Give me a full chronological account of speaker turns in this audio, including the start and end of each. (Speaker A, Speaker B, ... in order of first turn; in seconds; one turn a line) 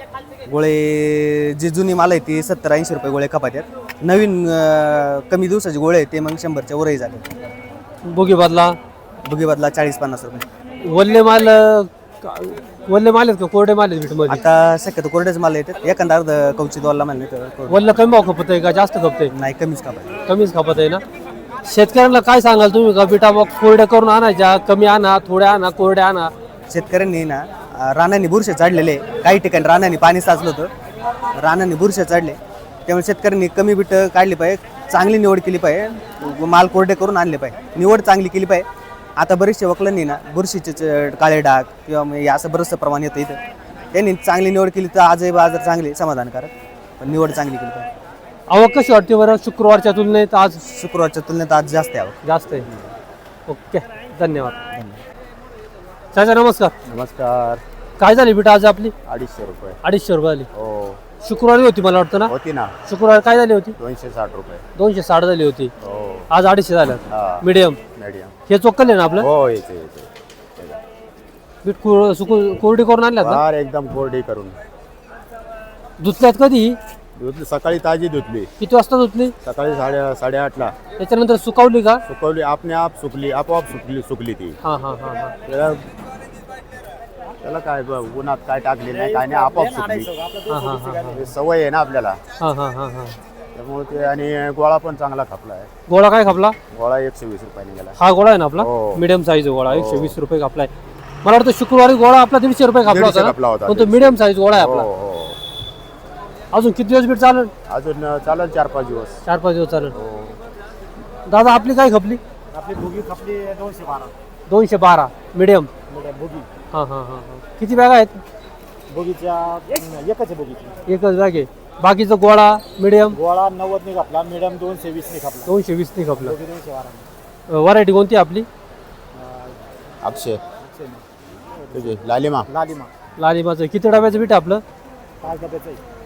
Speaker A: 0.5-7.3
Speaker B: 8.0-8.8
Speaker A: 9.2-10.4
Speaker B: 10.8-14.4
Speaker A: 14.3-17.8
Speaker B: 17.7-19.3
Speaker A: 19.3-20.1
Speaker B: 20.3-21.0
Speaker B: 21.6-26.3
Speaker A: 26.7-30.7
Speaker A: 31.4-38.6
Speaker A: 39.2-43.4
Speaker A: 43.9-47.9
Speaker B: 48.5-50.6
Speaker A: 50.6-52.2
Speaker B: 52.2-52.7
Speaker B: 53.5-54.5
Speaker A: 54.7-55.0
Speaker B: 56.1-56.7
Speaker C: 56.9-57.6
Speaker B: 58.0-58.9
Speaker C: 59.0-59.8
Speaker B: 59.8-60.5
Speaker C: 60.5-61.0
Speaker B: 61.2-62.3
Speaker C: 62.2-62.7
Speaker B: 62.9-63.7
Speaker C: 63.8-64.6
Speaker B: 64.8-65.7
Speaker C: 65.8-66.3
Speaker B: 66.3-67.8
Speaker C: 67.1-68.3
Speaker B: 68.5-69.3
Speaker C: 69.2-70.8
Speaker B: 71.6-73.4
Speaker C: 73.2-74.6
Speaker B: 76.0-76.8
Speaker C: 77.2-78.5
Speaker B: 78.6-79.3
Speaker C: 79.4-80.7
Speaker B: 81.0-82.0
Speaker C: 82.1-84.6
Speaker B: 84.6-85.3
Speaker C: 85.5-85.8
Speaker C: 87.4-90.1
Speaker D: 88.9-91.1
Speaker B: 90.5-91.3
Speaker C: 91.1-92.2
Speaker B: 92.4-93.2
Speaker C: 93.5-95.7
Speaker B: 95.9-96.5
Speaker C: 96.7-98.0
Speaker B: 98.0-100.7
Speaker C: 98.6-99.0
Speaker C: 99.7-100.1
Speaker B: 101.2-104.9
Speaker C: 102.8-105.4
Speaker B: 106.5-107.5
Speaker C: 107.7-109.2
Speaker B: 109.2-109.9
Speaker C: 109.9-110.4
Speaker B: 111.2-112.2
Speaker D: 112.5-114.1
Speaker B: 114.5-115.7
Speaker D: 115.9-116.5
Speaker B: 116.7-118.2
Speaker D: 118.9-120.8
Speaker B: 120.9-123.2
Speaker D: 123.1-125.5
Speaker B: 125.5-126.3
Speaker D: 126.2-127.1
Speaker B: 127.5-128.5
Speaker D: 129.2-129.5
Speaker C: 130.0-130.4
Speaker D: 130.6-131.1
Speaker D: 131.6-131.9
Speaker C: 131.7-132.5
Speaker D: 132.5-132.9
Speaker B: 133.2-134.6
Speaker D: 135.2-135.8